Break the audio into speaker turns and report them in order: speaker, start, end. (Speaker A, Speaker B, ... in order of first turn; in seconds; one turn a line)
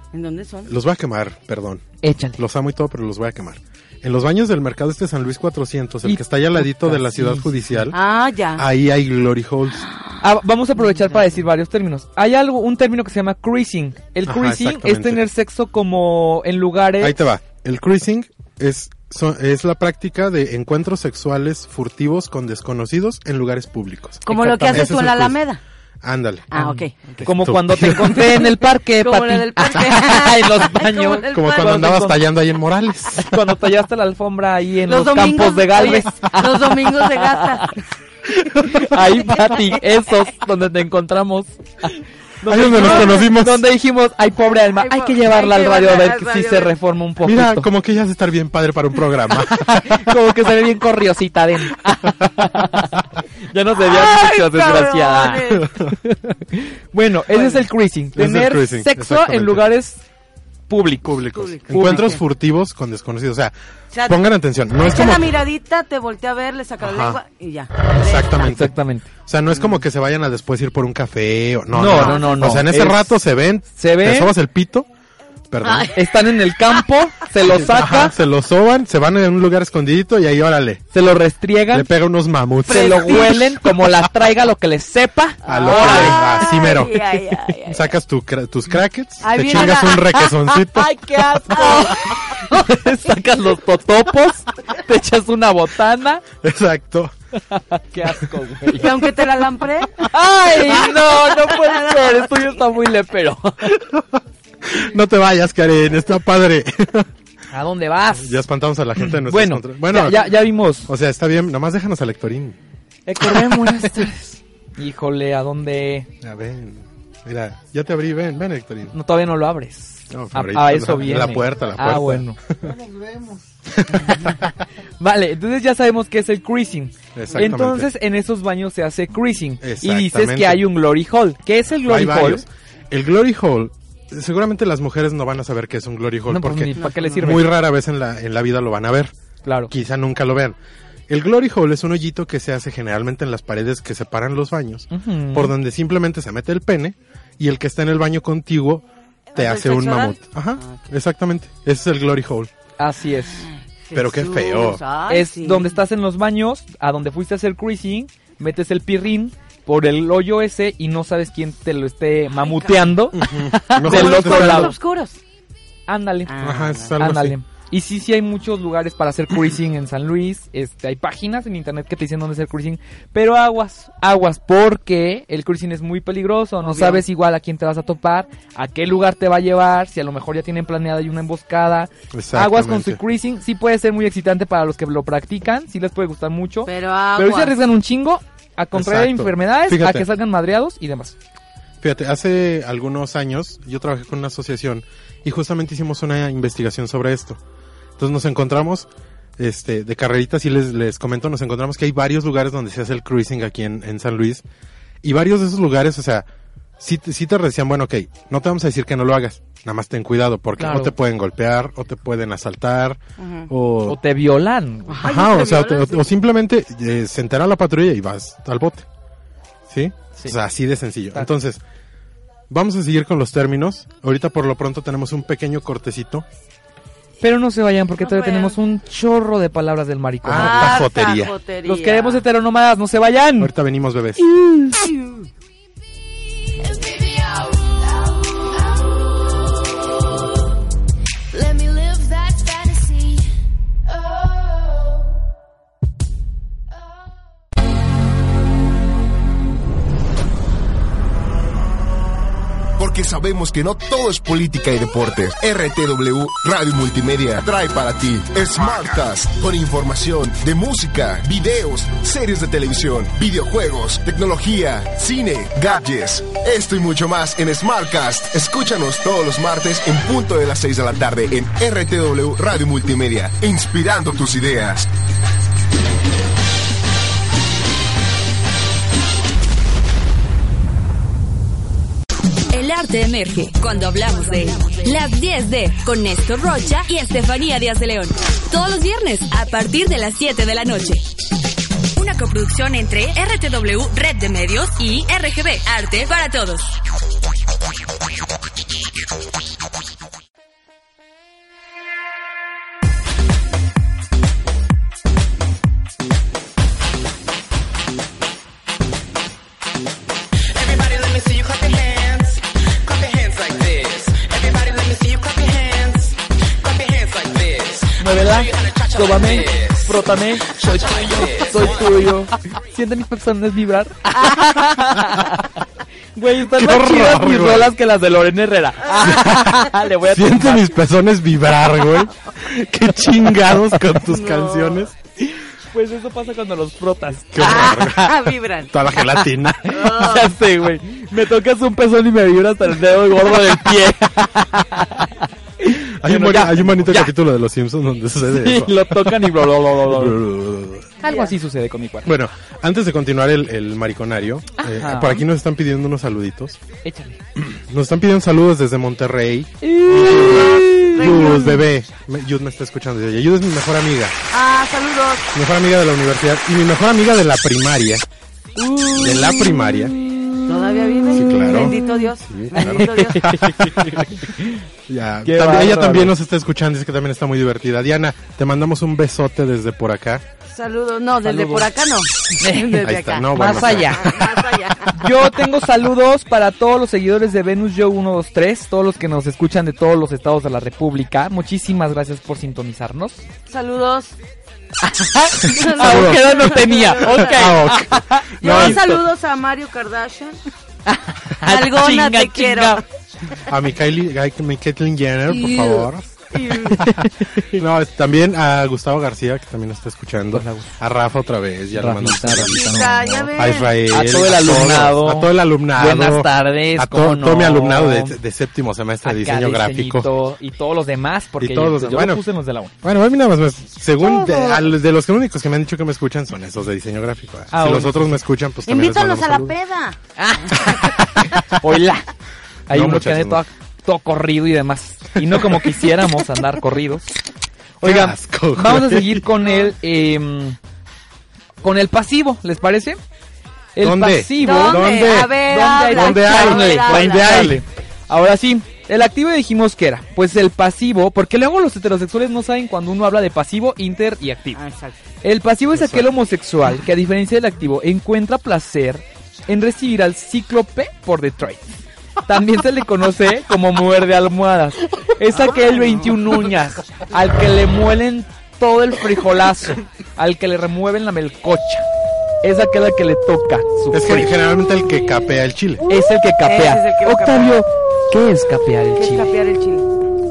Speaker A: 0.1-0.7
Speaker B: 0.7-1.9
Speaker C: 2.0-2.4
Speaker B: 2.4-8.0
Speaker C: 6.0-7.8
Speaker A: 7.9-8.6
Speaker B: 8.6-9.8
Speaker A: 9.8-10.2
Speaker C: 10.2-17.2
Speaker A: 10.8-11.2
Speaker B: 14.2-15.2
Speaker B: 17.0-25.4
Speaker A: 24.2-25.6
Speaker C: 24.3-24.9
Speaker B: 26.0-26.6
Speaker A: 26.5-27.0
Speaker C: 26.6-32.2
Speaker B: 27.2-28.4
Speaker A: 28.2-32.0
Speaker B: 31.3-33.4
Speaker C: 33.2-37.7
Speaker A: 34.9-37.8
Speaker C: 38.4-47.7
Speaker B: 42.5-43.7
Speaker A: 42.8-43.2
Speaker A: 44.8-46.7
Speaker B: 47.2-50.1
Speaker C: 49.5-60.0
Speaker A: 53.8-55.7
Speaker B: 55.6-55.9
Speaker A: 57.3-57.6
Speaker B: 58.1-59.7
Speaker C: 60.7-62.2
Speaker B: 61.0-65.3
Speaker A: 61.3-62.2
Speaker A: 63.9-64.2
Speaker A: 64.8-68.3
Speaker B: 66.8-67.2
Speaker B: 67.9-74.9
Speaker C: 68.4-69.1
Speaker A: 69.5-69.8
Speaker C: 71.7-73.2
Speaker A: 71.8-72.5
Speaker C: 73.7-74.3
Speaker B: 75.5-75.9
Speaker A: 75.6-75.9
Speaker C: 75.9-78.1
Speaker B: 77.4-80.9
Speaker C: 80.9-81.9
Speaker B: 81.7-83.4
Speaker A: 82.7-83.6
Speaker C: 82.7-86.6
Speaker A: 85.4-87.9
Speaker B: 85.4-87.1
Speaker B: 87.7-90.9
Speaker A: 89.2-90.3
Speaker C: 89.4-89.9
Speaker C: 90.5-96.2
Speaker A: 91.5-92.4
Speaker B: 96.4-97.1
Speaker C: 97.5-99.0
Speaker A: 98.7-100.1
Speaker C: 100.1-103.7
Speaker A: 100.6-102.3
Speaker B: 103.7-107.1
Speaker C: 107.5-108.4
Speaker B: 108.1-112.6
Speaker C: 109.0-110.9
Speaker C: 113.1-116.1
Speaker B: 113.2-114.1
Speaker B: 116.2-118.9
Speaker C: 118.9-122.4
Speaker B: 120.1-124.5
Speaker C: 125.0-132.4
Speaker B: 127.1-127.9
Speaker B: 129.6-130.7
Speaker B: 131.8-139.1
Speaker C: 136.3-137.5
Speaker A: 136.8-137.3
Speaker C: 139.4-139.7
Speaker B: 139.7-140.6
Speaker B: 141.1-152.5
Speaker C: 144.9-145.5
Speaker A: 149.3-150.8
Speaker C: 152.8-153.5
Speaker A: 153.4-155.8
Speaker B: 153.9-154.8
Speaker C: 155.1-164.7
Speaker A: 162.4-162.9
Speaker B: 163.1-164.8
Speaker A: 163.8-165.2
Speaker C: 165.9-166.4
Speaker A: 166.3-166.9
Speaker B: 166.4-167.3
Speaker C: 167.0-191.1
Speaker A: 176.6-177.0
Speaker B: 182.1-183.0
Speaker A: 186.7-187.6
Speaker B: 188.7-190.1
Speaker B: 191.8-197.4
Speaker B: 198.0-204.4
Speaker B: 205.0-206.3
Speaker B: 206.8-214.0
Speaker C: 210.6-210.9
Speaker A: 213.2-213.5
Speaker C: 213.9-215.0
Speaker A: 214.9-216.1
Speaker B: 215.0-218.8
Speaker B: 219.7-221.6
Speaker B: 222.5-226.2
Speaker C: 227.2-230.9
Speaker A: 228.0-228.6
Speaker B: 230.2-231.3
Speaker A: 230.3-232.2
Speaker C: 231.6-233.5
Speaker B: 233.4-234.2
Speaker A: 234.8-235.2
Speaker D: 236.6-238.9
Speaker D: 241.3-243.3
Speaker D: 243.9-244.9
Speaker E: 252.8-274.9
Speaker F: 282.5-291.0
Speaker F: 292.0-296.8
Speaker G: 310.5-322.2
Speaker C: 318.0-325.6
Speaker C: 326.1-330.7
Speaker B: 326.4-327.7
Speaker B: 329.0-334.9
Speaker A: 334.0-334.9
Speaker C: 335.2-338.1
Speaker B: 337.3-339.8
Speaker A: 337.4-338.7
Speaker A: 339.7-340.3
Speaker C: 339.7-347.1
Speaker B: 346.0-350.9
Speaker C: 348.3-350.2
Speaker C: 351.0-352.1
Speaker A: 351.0-351.3
Speaker B: 352.0-356.6
Speaker C: 354.6-355.2
Speaker C: 356.8-357.2
Speaker B: 357.4-364.2
Speaker C: 359.6-361.6
Speaker A: 360.9-361.6
Speaker A: 364.3-365.3
Speaker B: 365.3-368.1
Speaker C: 368.6-372.0
Speaker B: 368.9-369.9
Speaker A: 370.5-373.3
Speaker B: 371.1-374.3
Speaker C: 372.5-374.6
Speaker B: 374.9-380.2
Speaker C: 375.2-376.1
Speaker A: 380.5-384.9
Speaker C: 381.2-381.7
Speaker C: 382.4-384.1
Speaker B: 382.8-384.4
Speaker C: 384.9-393.2
Speaker A: 393.5-394.1
Speaker C: 394.8-399.0
Speaker A: 395.4-397.7
Speaker B: 395.8-396.3
Speaker B: 397.0-399.0
Speaker A: 398.4-400.4
Speaker C: 400.9-402.8
Speaker A: 401.4-402.8
Speaker B: 403.5-420.1
Speaker A: 406.3-406.9
Speaker C: 406.8-407.6
Speaker C: 410.3-410.7
Speaker C: 411.7-413.3
Speaker A: 412.5-413.7
Speaker C: 413.9-418.1
Speaker C: 419.0-422.7
Speaker B: 421.4-422.2
Speaker B: 422.8-429.5
Speaker A: 424.0-424.6
Speaker C: 427.5-428.0
Speaker A: 428.6-430.8
Speaker C: 430.2-432.1
Speaker C: 432.7-437.1
Speaker B: 432.7-433.4
Speaker B: 435.2-435.8
Speaker B: 437.8-439.3
Speaker C: 437.8-440.6
Speaker C: 441.6-443.0
Speaker C: 443.8-454.6
Speaker B: 443.8-447.6
Speaker A: 444.4-447.6
Speaker A: 454.5-454.9
Speaker C: 455.2-471.8
Speaker B: 455.7-456.1
Speaker A: 465.4-466.2
Speaker C: 472.4-474.3
Speaker B: 473.9-475.8
Speaker C: 475.9-479.3
Speaker A: 476.4-477.6
Speaker A: 478.9-479.9